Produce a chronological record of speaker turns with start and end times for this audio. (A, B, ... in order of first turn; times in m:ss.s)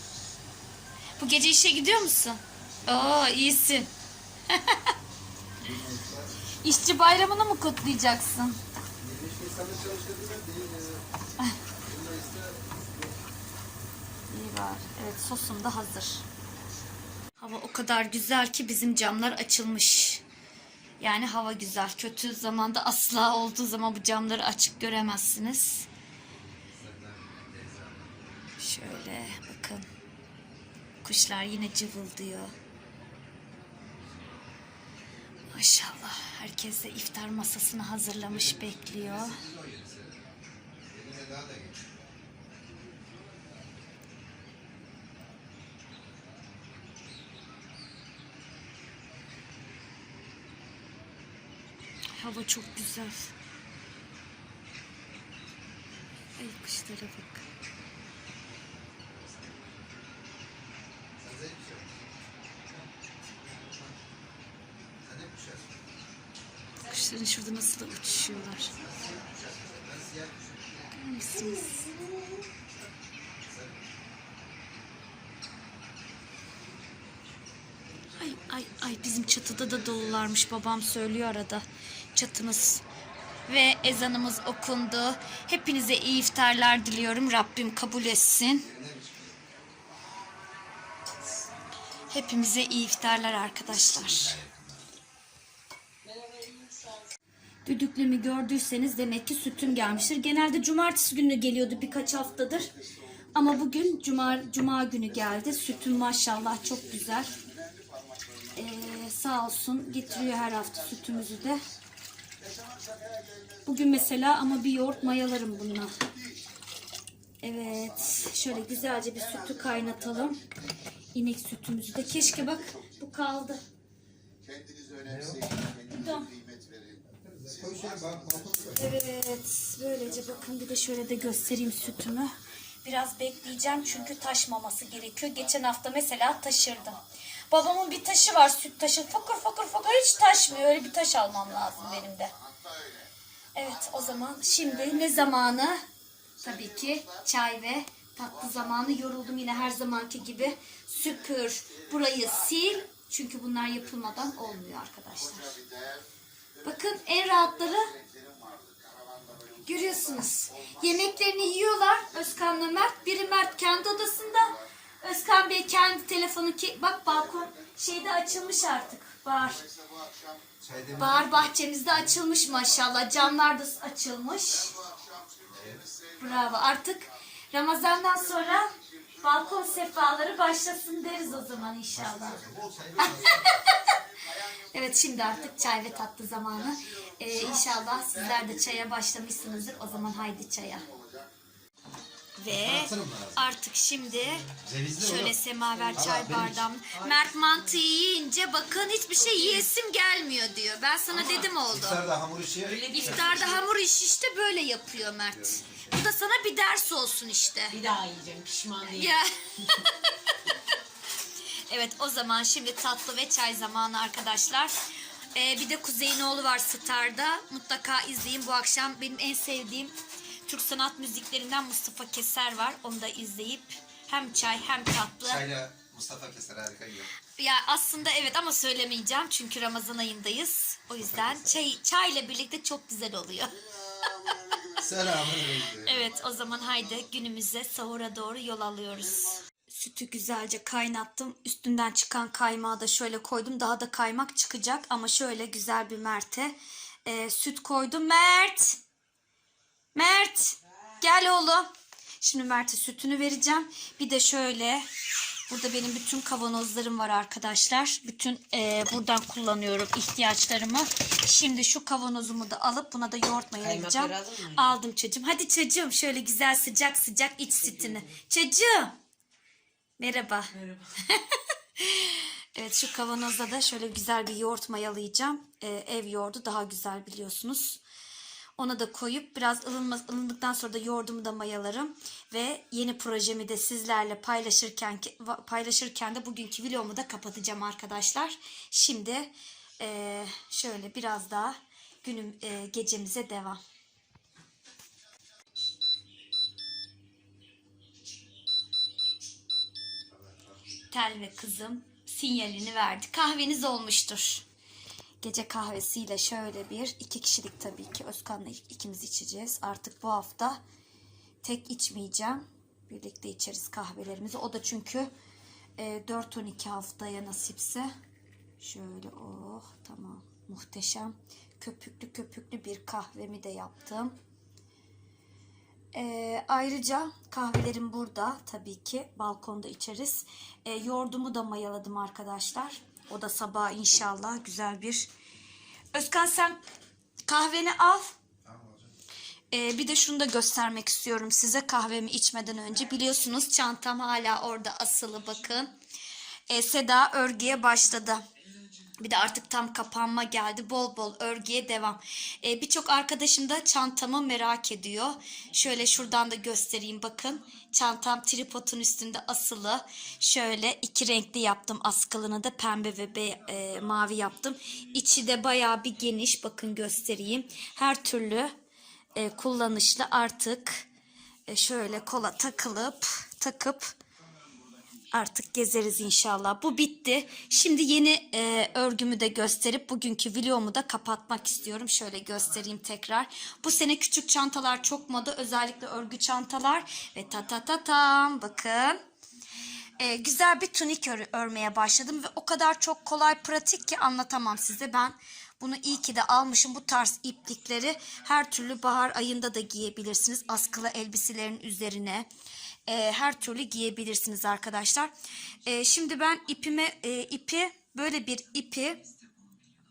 0:01.2-0:03.9 A
0:04.5-0:04.9 A
0:05.6-0:06.3 B
0:06.6-0:08.6 A
0:09.0-0:11.0 B
0:11.8-0:13.1 B
0:14.3-0:16.2 A
0:17.4-0:20.2 A
0:21.0-0:25.9 A
0:26.7-0:28.2 B
0:28.6-0:29.8 A
0:31.0-0:32.5 A
0:35.5-0:39.4 A
0:38.5-0:40.2 B
0:40.9-0:41.8 B
0:52.2-0:53.3 A
0:56.4-0:57.4 A
1:01.2-1:01.9 B
1:05.0-1:05.7 B
1:06.8-1:08.8 A
1:08.8-1:10.6 B
1:10.9-1:12.0 A
1:18.1-1:21.6 A
1:22.1-1:22.8 A
1:23.5-1:28.7 A
1:28.7-1:29.3 B
1:32.1-1:34.4 A
1:34.2-1:34.6 B
1:36.1-1:36.8 C
1:37.6-1:42.7 A
1:43.3-1:47.4 A
1:48.6-1:51.6 A
1:53.6-1:55.9 A
1:57.4-2:00.4 A
2:01.1-2:03.6 A
2:05.0-2:05.5 B
2:05.8-2:06.3 A
2:07.1-2:08.8 B
2:08.7-2:12.3 A
2:12.8-2:22.3 A
2:23.5-2:25.8 A
2:26.4-2:35.6 A
2:36.6-2:37.9 A
2:39.6-2:49.6 A
2:50.6-2:51.5 B
2:51.0-2:54.8 A
2:55.5-2:55.9 B
2:56.2-3:02.4 A
3:01.9-3:03.5 B
3:03.0-3:04.0 A
3:04.7-3:10.8 A
3:12.4-3:22.1 A
3:12.5-3:13.4 B
3:14.5-3:15.3 B
3:15.9-3:16.6 B
3:21.7-3:23.1 B
3:22.6-3:23.5 C
3:22.9-3:27.8 A
3:25.3-3:26.0 B
3:27.7-3:29.1 C
3:28.8-3:30.6 A
3:31.7-3:34.7 A
3:35.3-3:39.9 A
3:40.4-3:45.4 A
3:45.2-3:47.1 B
3:47.4-3:53.6 A
3:51.0-3:51.6 B
3:54.8-3:56.0 B
3:55.6-4:08.8 A
4:09.9-4:11.7 A
4:12.2-4:14.8 A
4:15.5-4:28.9 A
4:23.6-4:24.7 C
4:30.0-4:37.8 A
4:38.6-4:53.6 A
5:00.8-5:04.4 A
5:05.2-5:10.6 A
5:11.4-5:15.1 A
5:15.8-5:17.9 A
5:18.6-5:24.1 A
5:25.9-5:35.1 A
5:35.9-5:36.6 A
5:37.3-5:38.2 A
5:38.4-5:38.9 B
5:39.5-5:45.7 A
5:46.5-5:48.2 A
5:49.0-6:08.5 A
6:09.2-6:10.8 A
6:11.5-6:13.9 A
6:15.1-6:29.0 A
6:30.0-6:42.3 A
6:42.9-6:45.1 A
6:45.6-6:49.0 A